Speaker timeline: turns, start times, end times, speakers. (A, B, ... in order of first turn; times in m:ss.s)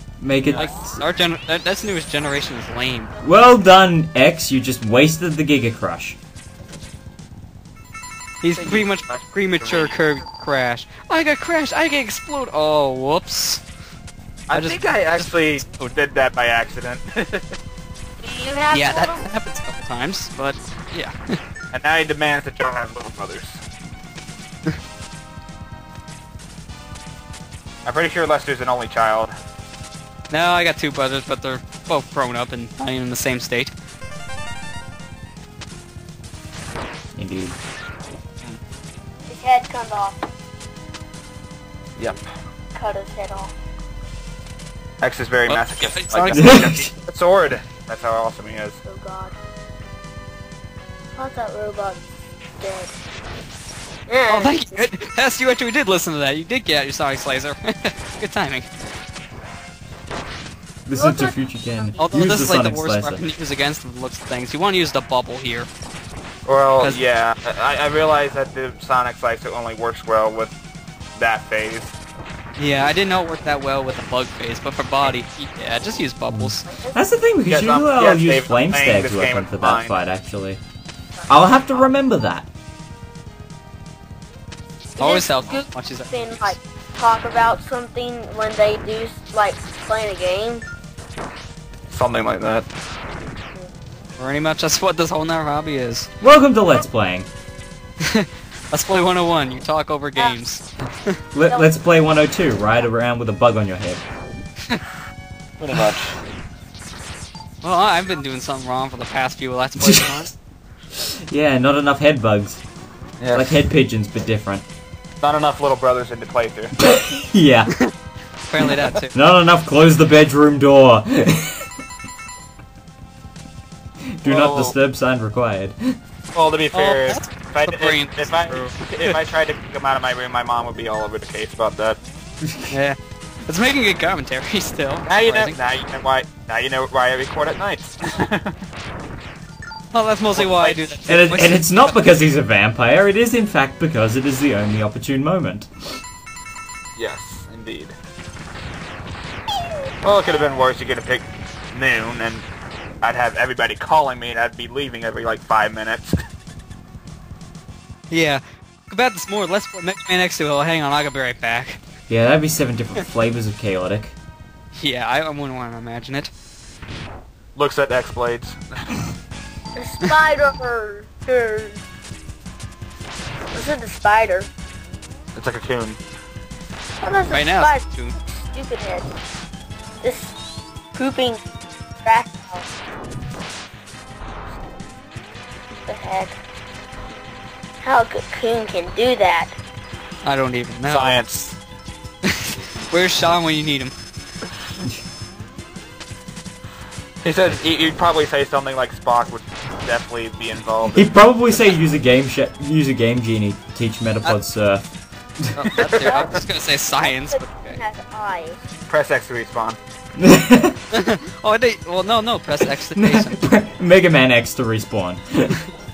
0:00.2-0:01.0 A
0:00.5-0:00.7 B
0:00.6-0:03.1 C
0:03.2-0:06.2 A
0:08.4-0:13.6 C
0:08.5-0:10.2 B
0:14.5-0:17.6 B
0:14.5-0:15.9 C
0:18.2-0:19.3 D
0:18.7-0:21.2 C
0:21.7-0:23.6 B
0:27.8-0:29.3 B
0:30.3-0:33.7 C
0:37.2-0:37.6 A
0:39.3-0:40.2 D
0:42.7-0:43.5 D
0:45.0-0:48.8 B
0:45.5-0:46.9 C
0:46.3-0:46.8 A
0:48.8-0:49.4 D
0:51.2-0:52.0 D
0:52.6-0:53.0 D
0:54.1-0:54.8 D
0:54.3-0:58.7 C
1:00.9-1:03.2 A
1:01.0-1:02.3 D
1:02.0-1:05.7 C
1:06.4-1:10.6 B
1:11.2-1:12.0 B
1:12.6-1:16.7 C
1:16.3-1:20.6 A
1:16.7-1:17.0 D
1:17.5-1:20.0 B
1:21.3-1:22.5 A
1:25.0-1:26.6 C
1:25.0-1:30.6 D
1:31.9-1:32.7 B
1:34.2-1:36.1 C
1:36.2-1:37.3 A
1:38.0-1:41.2 C
1:41.3-1:44.0 A
1:41.4-1:41.7 D
1:45.6-1:46.2 B
1:47.6-1:50.3 C
1:49.8-1:50.3 A
1:51.0-1:52.6 A
1:53.2-1:53.6 B
1:53.3-1:54.6 A
1:55.2-1:56.8 B
1:56.8-1:57.7 A
1:58.5-1:59.1 C
1:59.1-2:01.7 A
2:04.2-2:06.0 A
2:04.2-2:04.8 B
2:06.3-2:12.0 B
2:06.7-2:09.2 C
2:12.7-2:15.6 C
2:15.1-2:18.5 B
2:19.9-2:22.0 C
2:20.3-2:20.8 B
2:21.1-2:25.7 A
2:27.0-2:28.0 B
2:30.0-2:32.5 B
2:33.0-2:36.2 B
2:38.1-2:41.8 C
2:42.1-2:44.2 A
2:44.7-2:46.3 C
2:47.6-2:48.8 B
2:49.8-2:51.8 D
2:53.5-2:54.5 D
2:55.4-2:56.0 B
2:57.0-2:59.1 D
2:57.3-2:58.2 C
3:00.0-3:00.4 D
3:01.0-3:01.4 D
3:02.0-3:02.7 D
3:05.7-3:06.4 D
3:07.8-3:09.5 D
3:10.2-3:11.2 C
3:10.9-3:11.6 B
3:12.3-3:13.9 C
3:17.2-3:21.1 B
3:20.9-3:24.8 A
3:25.6-3:27.8 C
3:25.6-3:26.3 B
3:26.0-3:28.6 D
3:28.9-3:29.8 B
3:30.2-3:30.8 A
3:30.9-3:33.4 C
3:33.0-3:35.6 A